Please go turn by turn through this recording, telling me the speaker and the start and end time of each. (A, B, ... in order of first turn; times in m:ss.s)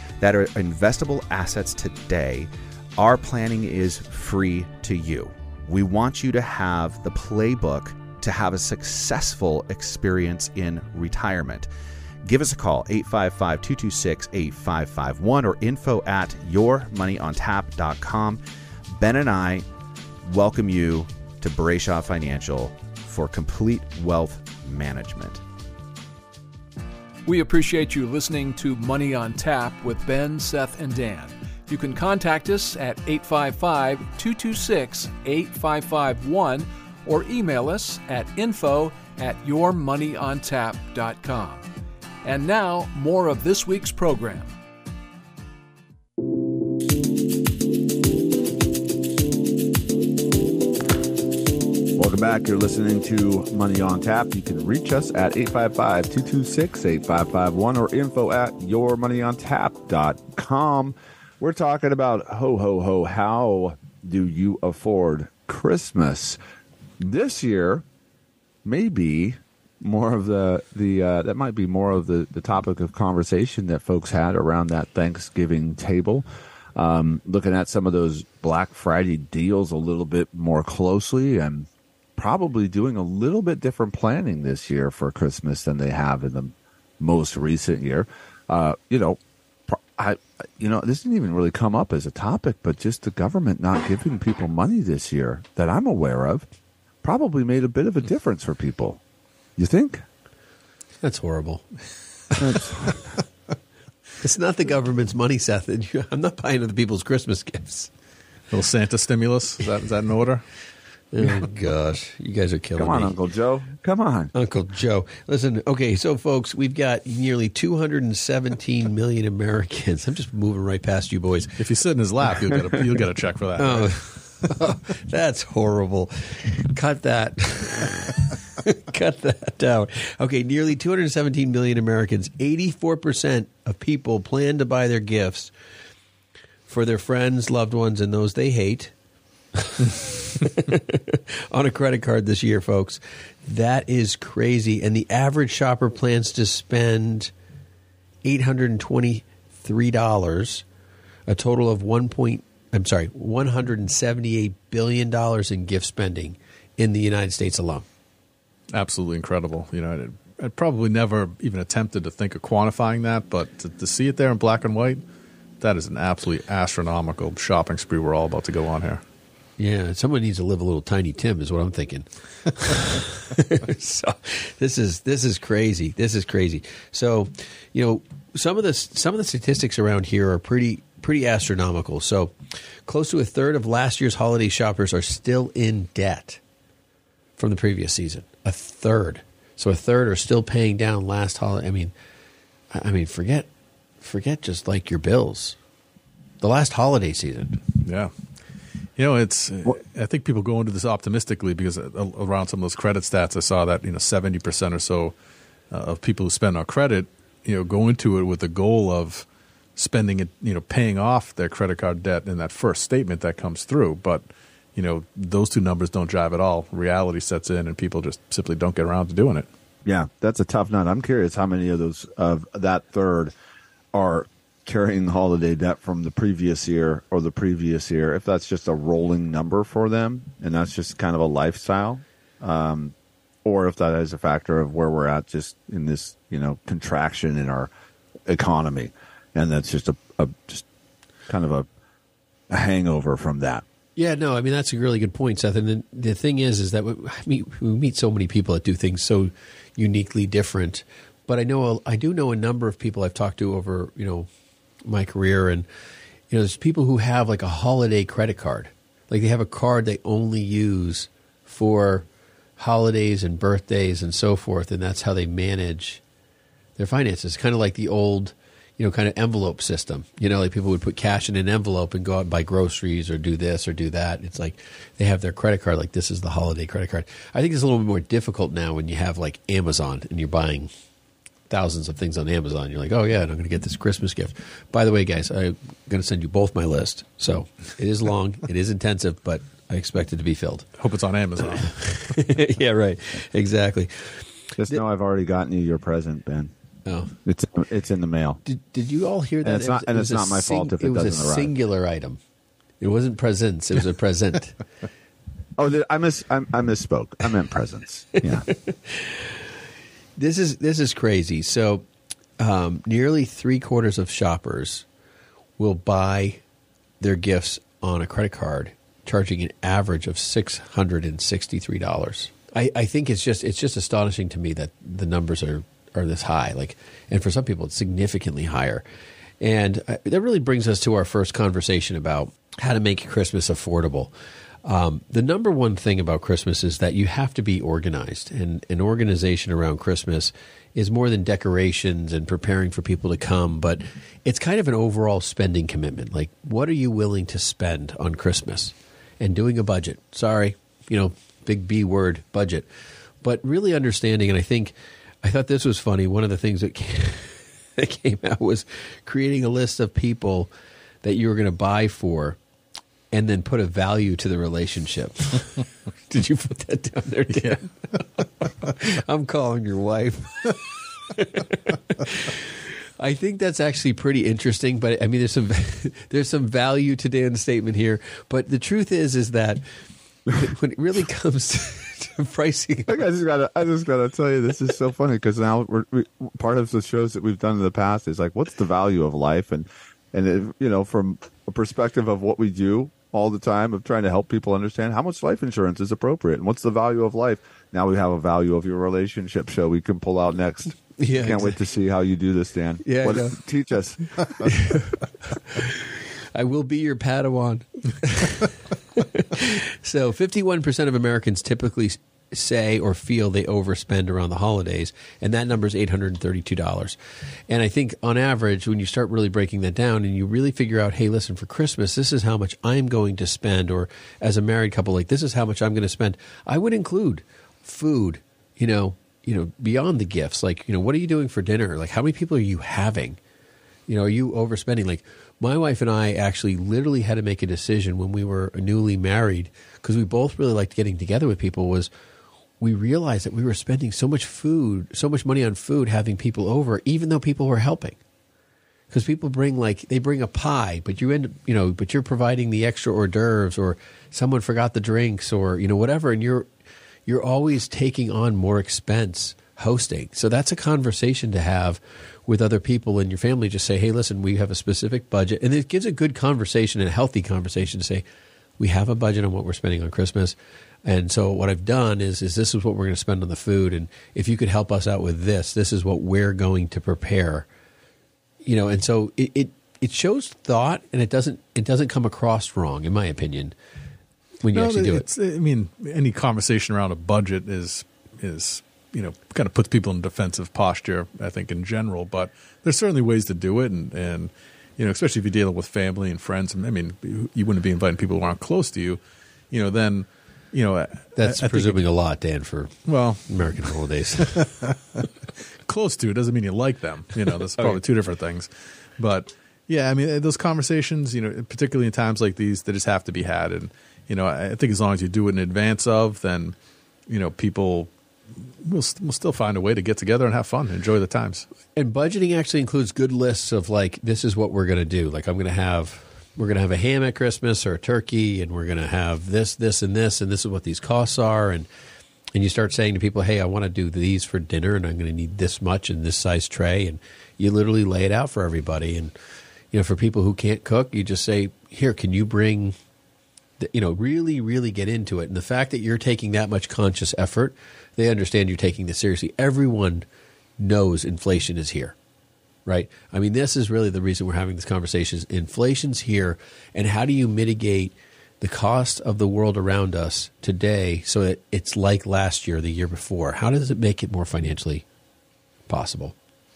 0:00.2-0:11.7 A
0:12.2-0:18.4 A
0:18.9-0:19.7 A
0:20.2-0:25.4 A
0:27.2-0:41.6 B
0:42.2-0:44.5 B
0:52.0-1:06.4 C
1:07.0-1:07.8 C
1:08.6-1:36.5 C
1:37.0-1:39.0 C
1:39.6-1:40.0 C
1:41.0-1:41.6 D
1:42.3-1:42.6 D
1:42.4-1:43.0 C
1:44.2-1:47.9 D
1:48.5-1:50.4 E
1:51.1-1:53.2 D
1:52.8-1:54.3 C
1:54.3-2:01.6 D
2:01.6-2:04.1 E
2:03.6-2:15.5 D
2:16.7-2:18.9 D
2:19.6-2:27.3 D
2:28.2-2:30.6 D
2:31.3-2:37.9 D
2:38.7-2:45.0 E
2:45.6-2:49.0 E
2:49.6-3:06.4 D
3:07.4-3:11.9 D
3:12.7-3:13.5 D
3:14.0-3:15.6 D
3:16.4-3:17.6 D
3:17.8-3:18.1 E
3:19.0-3:25.1 E
3:25.7-3:39.5 E
3:39.8-3:43.3 C
3:43.9-3:57.7 C
3:58.3-4:00.6 C
4:01.3-4:01.7 C
4:02.5-4:03.6 C
4:04.0-4:14.3 D
4:14.8-4:15.7 D
4:16.3-4:22.1 D
4:22.6-4:26.0 D
4:26.8-4:40.7 D
4:41.5-4:50.7 D
4:50.8-4:52.2 E
4:51.6-4:54.8 D
4:54.6-4:56.5 C
4:56.9-4:57.1 D
4:57.2-4:58.4 C
4:58.4-5:02.2 D
4:59.4-5:01.5 C
5:02.8-5:04.6 D
5:05.6-5:08.5 C
5:08.6-5:09.4 D
5:10.2-5:11.9 D
5:12.4-5:14.9 D
5:15.6-5:16.4 D
5:17.0-5:28.8 D
5:29.4-5:34.1 D
5:34.6-5:52.7 D
5:53.2-6:00.5 D
6:01.0-6:02.4 D
6:03.1-6:07.7 D
6:08.6-6:19.6 D
6:20.3-6:23.0 D
6:22.9-6:44.5 C
6:41.0-6:41.6 D
6:42.8-6:43.4 D
6:44.4-6:57.0 D
6:57.5-7:13.2 D
7:13.9-7:21.9 D
7:22.6-7:28.0 D
7:28.9-7:36.5 D
7:37.1-7:48.0 D
7:48.6-7:57.5 D
7:58.4-8:03.6 D
8:04.4-8:05.0 D
8:04.5-8:19.0 E
8:19.5-8:21.8 E
8:21.2-8:22.7 D
8:22.9-8:25.1 E
8:23.3-8:24.4 D
8:25.7-8:36.6 E
8:37.1-8:37.9 E
8:38.6-8:41.5 E
8:41.8-8:51.7 D
8:52.4-8:59.1 D
8:59.7-9:02.8 D
9:03.6-9:10.1 D
9:10.6-9:12.0 D
9:12.7-9:24.8 D
9:25.7-9:26.2 D